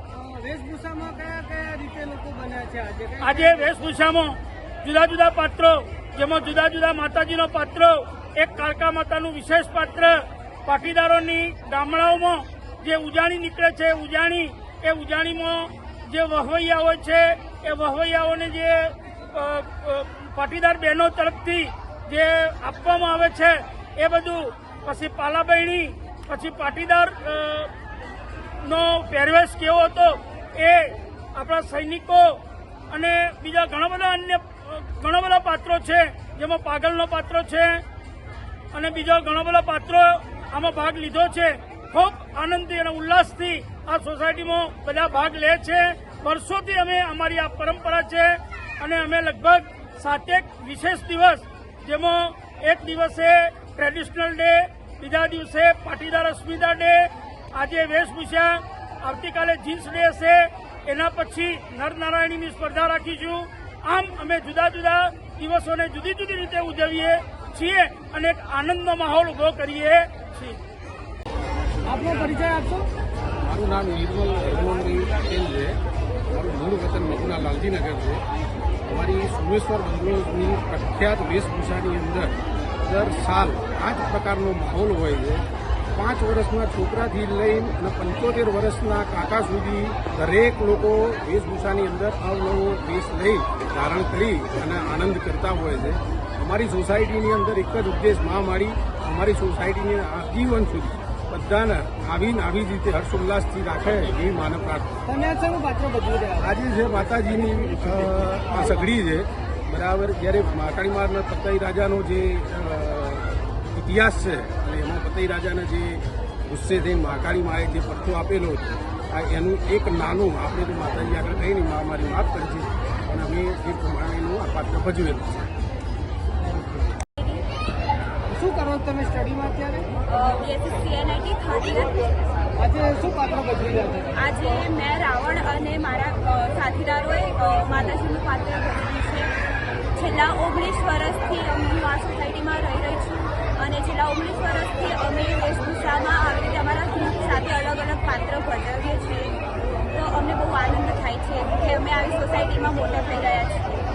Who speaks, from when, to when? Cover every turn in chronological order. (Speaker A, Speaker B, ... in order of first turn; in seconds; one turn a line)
Speaker A: 0.1-3.7
Speaker B: 3.2-27.7
Speaker B: 28.6-37.8
Speaker B: 38.7-70.6
Speaker A: 71.9-72.9
Speaker C: 73.4-75.8
Speaker C: 76.3-78.2
Speaker C: 78.8-105.0
Speaker A: 105.1-106.4
Speaker C: 106.4-125.5
Speaker A: 128.3-129.9
Speaker D: 130.1-132.5
Speaker A: 132.6-134.1
Speaker D: 134.2-139.3
Speaker D: 139.9-149.4
Speaker D: 149.9-153.7